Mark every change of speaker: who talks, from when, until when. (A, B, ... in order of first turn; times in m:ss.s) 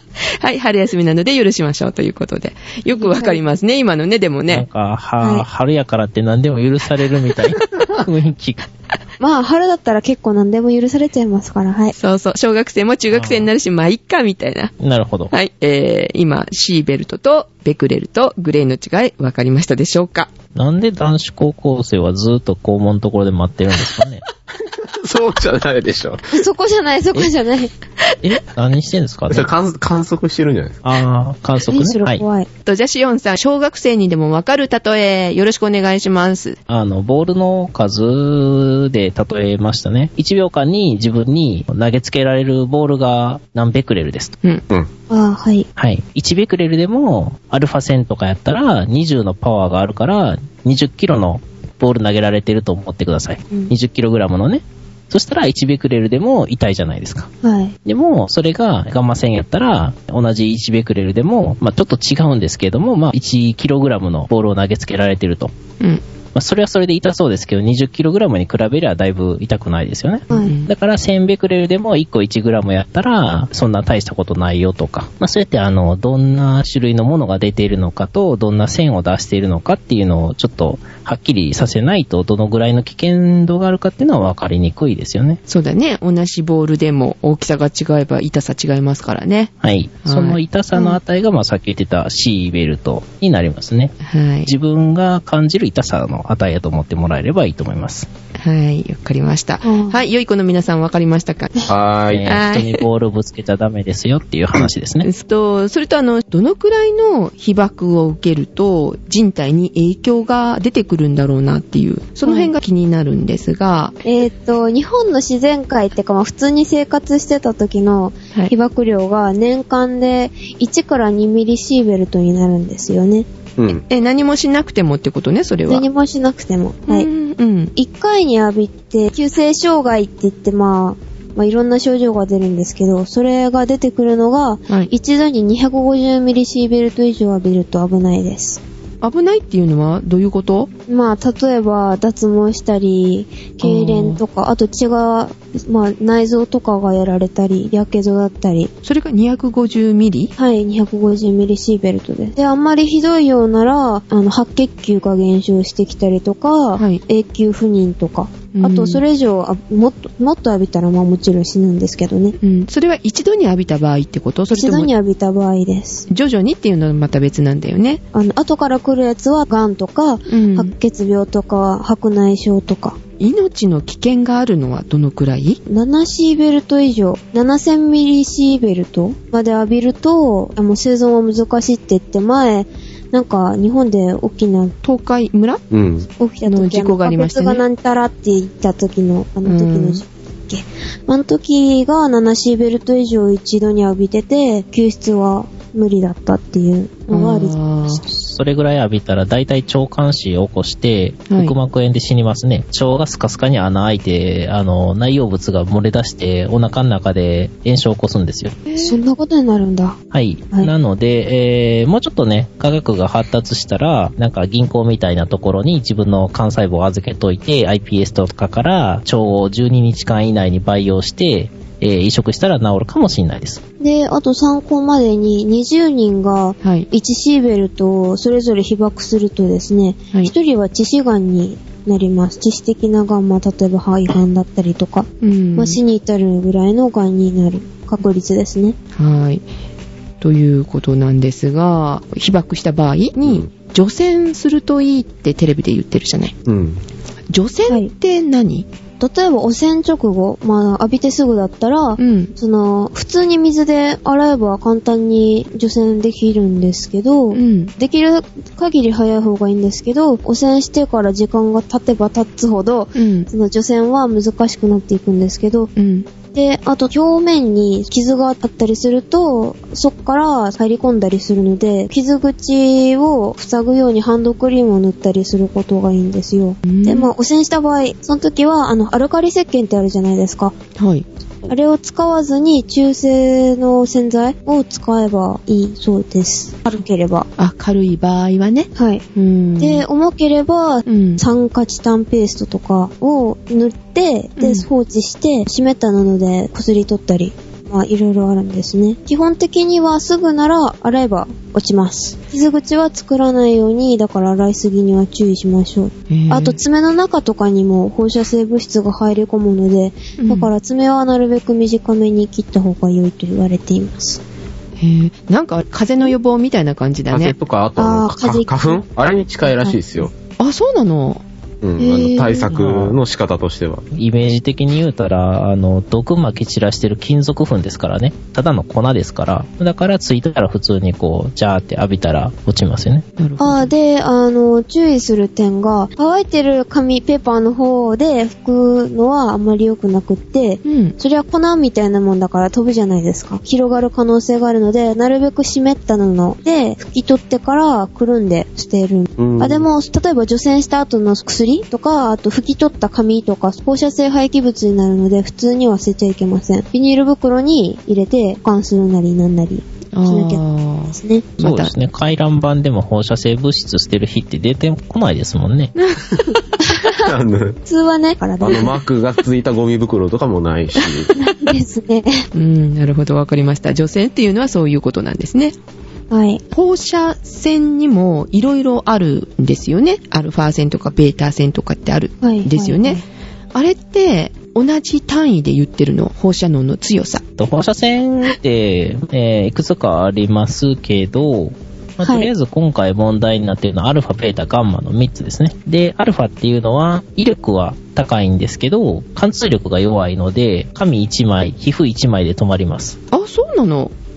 0:00.3-0:04.6 A
0:02.9-0:03.4 B
0:04.5-0:08.6 C
0:05.2-0:05.5 B
0:09.2-0:12.0 B
0:12.0-0:14.7 A
0:13.1-0:13.5 C
0:14.8-0:15.3 C
0:15.3-0:20.3 A
0:20.6-0:24.2 C
0:24.6-0:26.2 D
0:26.3-0:27.7 B
0:28.2-0:29.5 C
0:29.3-0:30.8 D
0:30.8-0:32.2 C
0:31.7-0:32.5 B
0:32.7-0:36.6 A
0:36.7-0:44.3 C
0:45.1-0:45.7 B
0:45.8-0:57.3 C
0:57.4-0:57.8 B
0:57.9-1:05.5 C
1:06.4-1:25.4 C
1:10.3-1:10.7 A
1:25.5-1:29.5 A
1:29.6-1:33.9 C
1:30.0-1:30.4 A
1:34.0-1:34.5 A
1:34.4-1:38.1 C
1:38.4-1:41.5 A
1:39.6-1:40.0 B
1:41.7-1:42.4 D
1:42.1-1:45.1 C
1:42.3-1:42.8 A
1:45.0-1:54.0 A
1:52.2-1:52.5 B
1:54.0-2:03.3 B
2:03.6-2:03.8 D
2:03.8-2:05.8 A
2:05.7-2:07.1 B
2:06.9-2:07.7 A
2:07.8-2:18.6 B
2:19.0-2:20.7 A
2:20.9-2:28.7 B
2:23.6-2:24.2 A
2:28.8-2:30.3 A
2:30.4-2:42.4 B
2:38.5-2:39.0 A
2:42.4-2:44.9 A
2:44.5-2:46.1 B
2:46.1-2:48.0 A
2:48.1-2:53.0 B
2:50.3-2:50.7 A
2:53.2-2:55.6 A
2:55.7-3:04.8 B
3:04.8-3:05.6 A
3:05.7-3:06.1 D
3:06.2-3:18.0 B
3:06.5-3:07.6 A
3:09.4-3:10.0 A
3:17.1-3:18.0 A
3:18.1-3:28.6 C
3:21.3-3:21.6 A
3:28.7-3:29.0 A
3:28.8-3:30.0 B
3:30.1-3:43.6 C
3:43.8-3:58.8 B
3:55.2-3:55.8 A
3:59.0-3:59.4 A
4:00.2-4:06.4 A
4:06.5-4:06.8 D
4:07.3-4:08.7 A
4:09.0-4:25.7 B
4:12.0-4:12.3 A
4:17.3-4:17.7 A
4:23.0-4:23.3 A
4:25.8-4:26.1 A
4:26.3-4:40.5 B
4:36.7-4:37.1 A
4:40.8-4:41.0 A
4:41.5-4:47.3 B
4:47.4-4:49.8 A
4:48.8-4:49.0 B
4:49.6-5:14.2 B
4:50.9-4:51.2 A
4:54.4-4:54.7 A
5:06.1-5:06.6 A
5:10.2-5:10.5 A
5:14.8-5:17.4 A
5:17.1-5:20.1 D
5:17.8-5:18.8 B
5:19.5-5:19.8 B
5:20.4-5:21.2 A
5:21.6-5:23.8 D
5:21.8-5:22.5 A
5:21.9-5:22.4 B
5:22.5-5:23.0 C
5:23.9-5:33.0 C
5:33.2-5:33.7 A
5:33.4-6:01.3 B
5:40.6-5:41.0 A
5:49.2-5:49.7 D
5:59.9-6:01.7 A
6:01.4-6:05.7 C
6:05.8-6:06.4 A
6:06.6-6:07.0 B
6:06.9-6:07.6 D
6:07.7-6:08.7 B
6:08.4-6:11.1 D
6:11.2-6:12.2 B
6:12.3-6:15.6 A
6:16.1-6:16.4 B
6:16.5-6:23.0 A
6:22.2-6:23.0 B
6:23.5-6:27.2 A
6:27.4-6:43.0 C
6:32.0-6:32.3 B
6:43.1-6:43.9 A